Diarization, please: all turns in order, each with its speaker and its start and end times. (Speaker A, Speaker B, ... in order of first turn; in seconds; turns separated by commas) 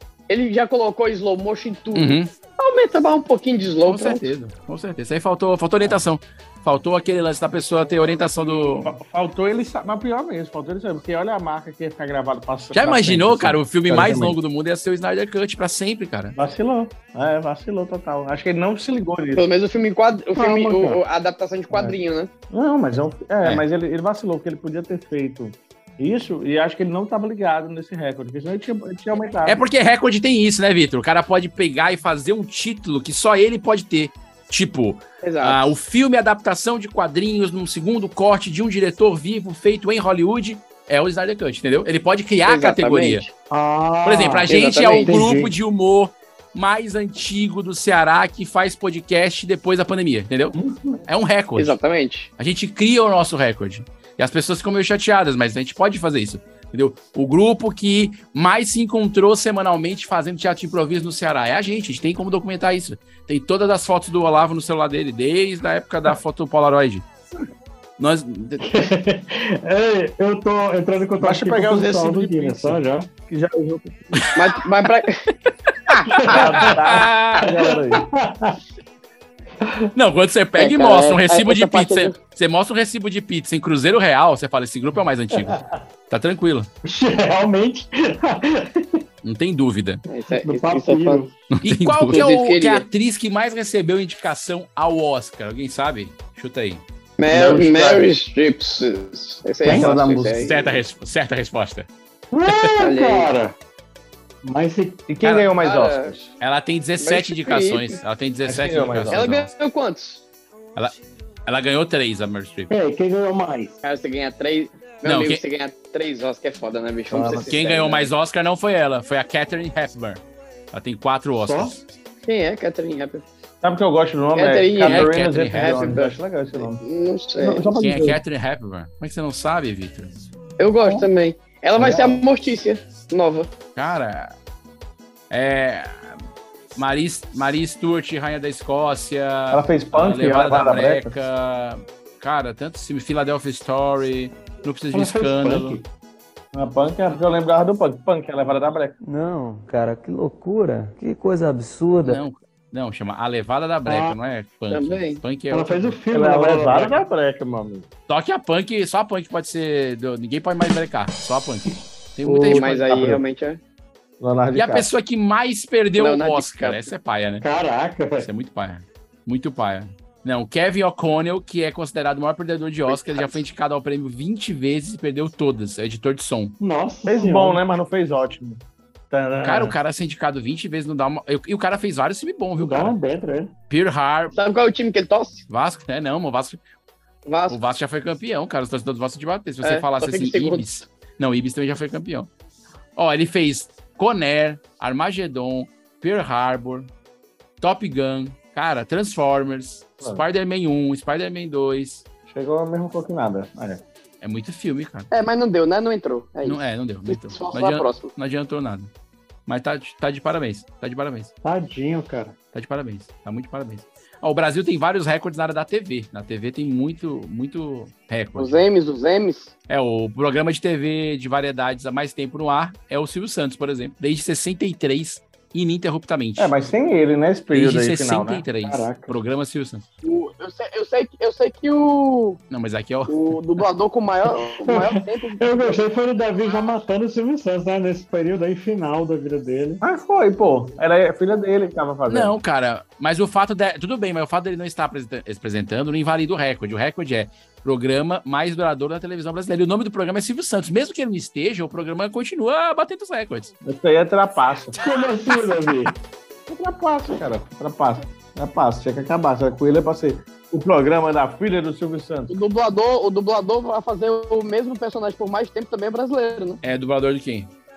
Speaker A: 0.3-4.3, Speaker B: 1.9-2.3, Speaker B: 3.9-8.9, Speaker C: 8.1-14.4, Speaker B: 12.7-16.3, Speaker C: 16.3-19.5, Speaker A: 19.3-22.3, Speaker D: 20.4-21.0, Speaker C: 22.5-29.6, Speaker B: 29.4-43.2, Speaker A: 35.2-35.7, Speaker A: 42.5-43.3, Speaker D: 43.5-44.5, Speaker B: 44.0-50.5, Speaker A: 44.5-45.2, Speaker C: 45.0-45.5, Speaker C: 50.5-51.0, Speaker B: 51.1-51.8, Speaker A: 51.5-52.3, Speaker B: 52.4-67.0, Speaker B: 68.0-68.6, Speaker D: 68.6-73.1, Speaker C: 71.2-74.3, Speaker A: 74.3-75.2, Speaker D: 76.1-76.7, Speaker C: 76.2-78.0, Speaker B: 76.2-77.5, Speaker D: 77.5-78.5, Speaker B: 79.9-86.7, Speaker A: 80.6-82.2, Speaker D: 86.8-89.0, Speaker B: 89.2-90.0, Speaker A: 90.1-92.8, Speaker D: 90.4-91.3, Speaker B: 91.6-96.8, Speaker A: 97.2-100.7, Speaker C: 97.3-98.1, Speaker C: 99.6-100.5, Speaker B: 100.4-101.9, Speaker D: 102.3-103.5, Speaker A: 102.8-103.3, Speaker D: 104.4-105.0, Speaker C: 105.1-106.3, Speaker A: 105.2-106.1, Speaker B: 106.4-109.5, Speaker A: 107.0-108.0, Speaker C: 108.4-109.3, Speaker A: 109.1-110.2, Speaker B: 111.5-112.7, Speaker D: 112.7-113.8, Speaker A: 113.8-118.1, Speaker B: 115.0-115.4, Speaker C: 117.1-118.0, Speaker B: 117.3-120.2, Speaker B: 120.7-121.8, Speaker D: 121.4-121.7, Speaker A: 122.2-123.2, Speaker C: 123.6-126.8, Speaker A: 124.4-127.7, Speaker B: 124.8-125.9, Speaker C: 127.4-128.2, Speaker B: 127.8-130.1, Speaker A: 130.6-133.5, Speaker C: 131.8-132.2, Speaker B: 133.8-134.3, Speaker B: 135.3-136.1, Speaker B: 136.8-145.8, Speaker C: 139.5-141.2, Speaker D: 144.9-145.8, Speaker C: 146.5-149.0, Speaker E: 149.0-152.2, Speaker B: 152.0-155.9, Speaker D: 153.9-154.2, Speaker A: 154.7-155.2, Speaker D: 155.5-157.0, Speaker C: 156.1-157.9, Speaker B: 158.1-162.9, Speaker D: 162.2-162.6, Speaker C: 162.5-163.2, Speaker A: 162.5-163.6, Speaker C: 164.2-164.9, Speaker B: 164.5-167.4, Speaker A: 165.9-166.9, Speaker D: 167.4-168.3, Speaker B: 168.2-176.6, Speaker A: 172.9-173.4, Speaker D: 176.6-177.6, Speaker C: 177.1-179.7, Speaker B: 179.4-182.9, Speaker D: 182.6-183.5, Speaker B: 183.7-184.3, Speaker A: 184.3-185.4, Speaker B: 185.5-186.6, Speaker A: 187.2-187.6, Speaker B: 187.5-192.3, Speaker A: 189.6-190.7, Speaker B: 192.9-196.9, Speaker B: 197.6-202.0, Speaker C: 202.3-203.8, Speaker B: 204.2-205.1, Speaker A: 205.1-208.1, Speaker B: 206.4-208.9, Speaker B: 209.5-211.3, Speaker D: 211.4-212.3, Speaker B: 212.5-218.6, Speaker A: 218.4-219.5, Speaker B: 219.7-226.5, Speaker C: 226.4-228.4, Speaker B: 227.5-229.8, Speaker D: 228.6-229.1, Speaker A: 230.0-232.4, Speaker B: 232.5-233.2, Speaker A: 233.1-235.8, Speaker D: 234.6-239.8, Speaker C: 239.8-242.3, Speaker B: 242.1-253.5, Speaker C: 253.6-254.8, Speaker D: 254.8-255.9, Speaker C: 256.5-262.3, Speaker A: 262.3-266.6, Speaker B: 266.6-267.5